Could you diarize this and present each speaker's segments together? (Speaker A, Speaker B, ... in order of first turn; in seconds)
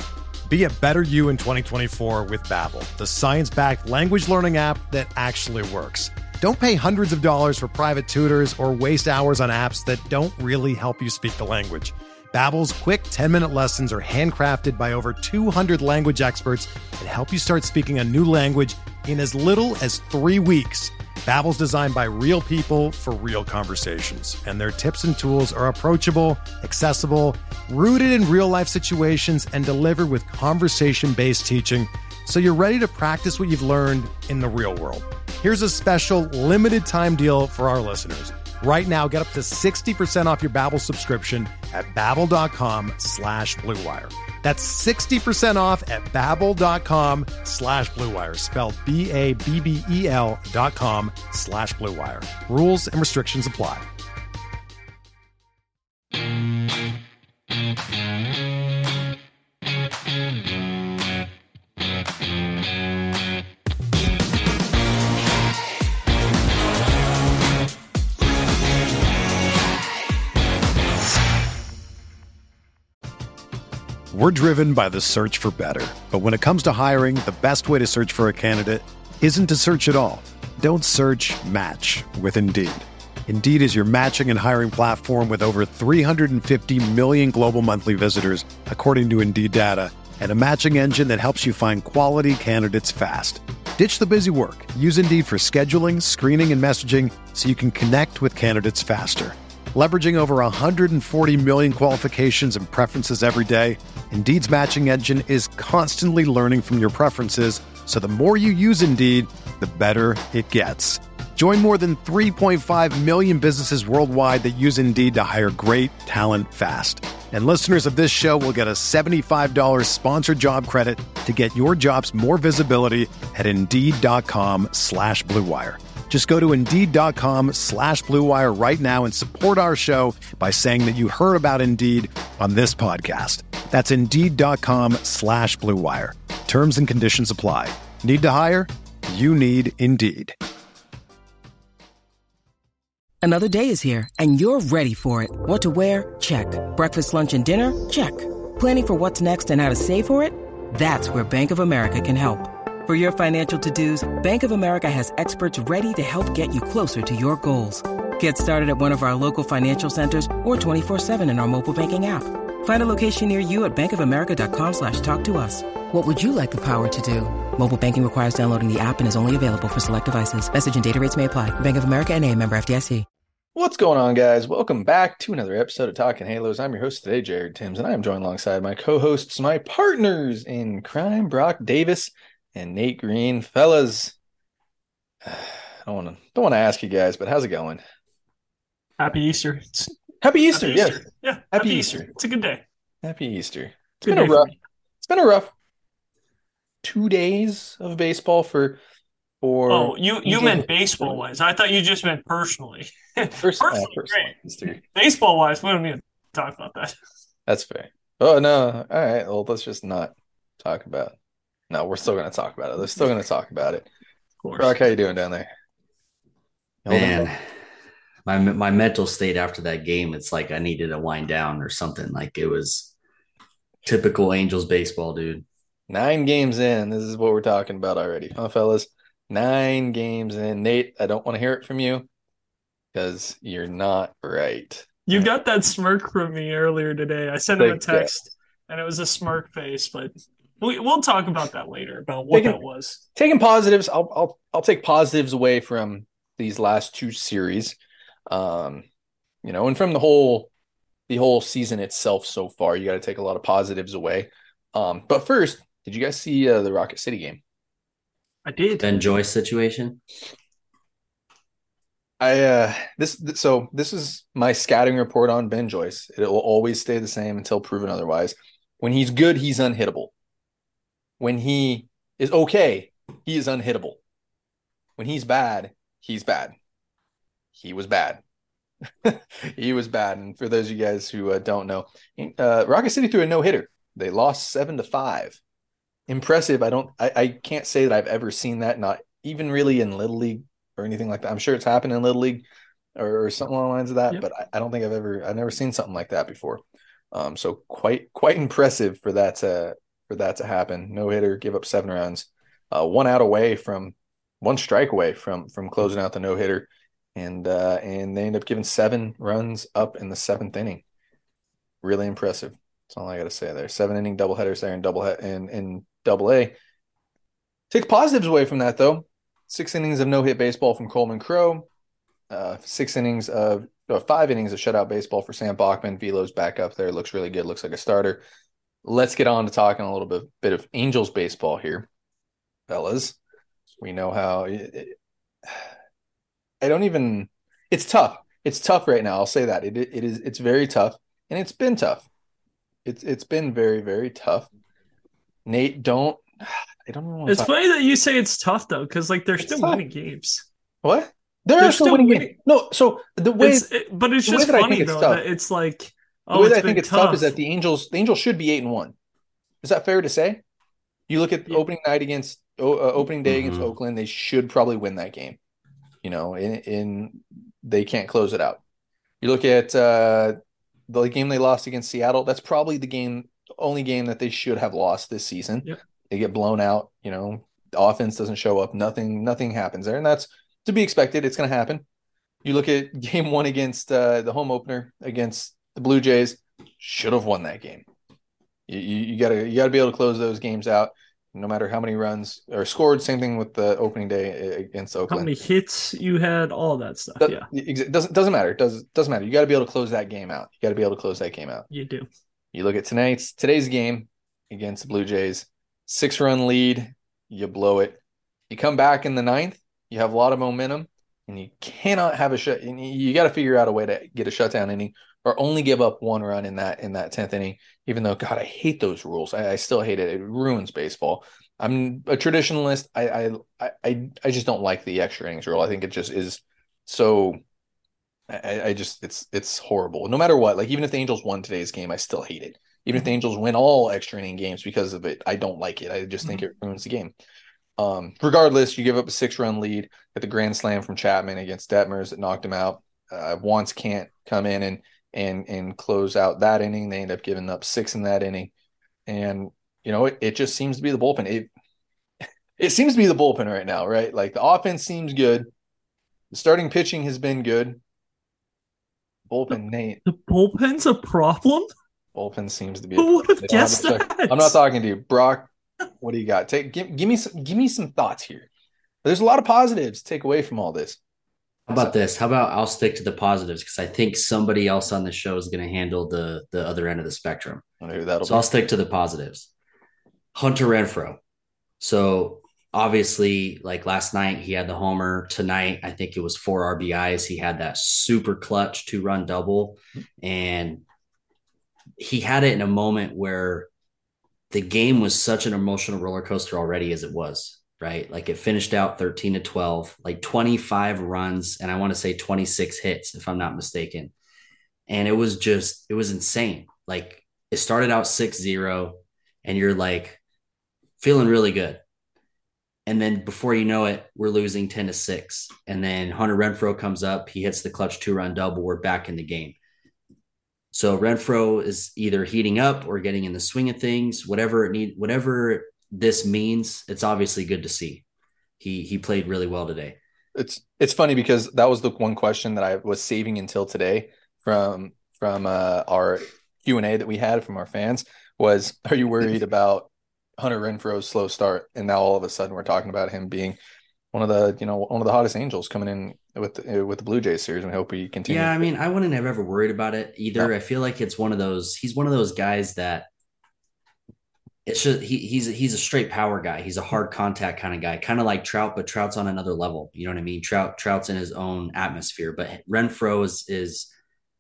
Speaker A: 0.5-53.9, 74.1-140.4
Speaker B: 143.2-173.0
Speaker C: 173.5-184.2, 185.2-187.8, 190.2-192.1, 193.0-194.5, 195.0-195.5, 196.8-198.8, 199.4-201.2, 203.4-204.8, 207.5-211.2, 211.7-213.9, 214.6-215.5, 216.8-217.3, 225.9-232.1, 232.9-235.3, 237.6-238.1, 242.3-242.6, 243.2-247.8, 248.3-248.8, 249.4-250.5, 251.1-257.4, 262.2-270.1, 271.2-274.0, 275.0-276.5, 277.5-278.2, 279.0-285.4, 286.1-292.4, 292.9-310.8, 311.8-316.5, 317.7-321.7, 322.3-328.2, 328.8-331.9, 332.7-333.1, 333.8-334.9, 336.6-342.1, 342.8-344.5, 345.4-347.5, 349.4-349.8, 350.8-353.7, 354.2-355.2, 356.3-358.9, 359.6-360.4, 361.1-365.4, 366.0-368.6, 369.2-381.8, 382.4-387.8, 388.7-395.3, 397.2-401.7, 402.5-427.4, 428.3-437.1, 437.8-448.5, 449.1-451.5, 452.6-455.5, 456.3-457.8, 459.3-460.0, 462.1-465.5, 466.0-468.5, 469.0-471.0, 477.8-478.5, 530.4-543.6, 544.1-548.7
Speaker D: 189.0-189.9, 190.5-192.6, 194.0-194.6, 199.7-207.0, 214.4-214.8, 235.1-243.0, 258.4-259.2, 347.3-350.4, 351.6-352.3, 353.4-357.4, 395.1-397.5, 401.7-402.1, 460.1-461.7, 463.0-464.6
Speaker E: 216.9-217.4, 218.2-222.9, 223.8-225.4, 258.8-260.0, 363.2-363.7, 471.7-477.6, 478.2-479.5, 480.3-481.2, 481.8-490.8, 492.0-493.7, 494.5-504.1, 504.9-510.2, 511.0-511.8, 512.9-519.6, 520.7-528.0, 528.6-530.0, 548.2-553.1, 554.6-563.9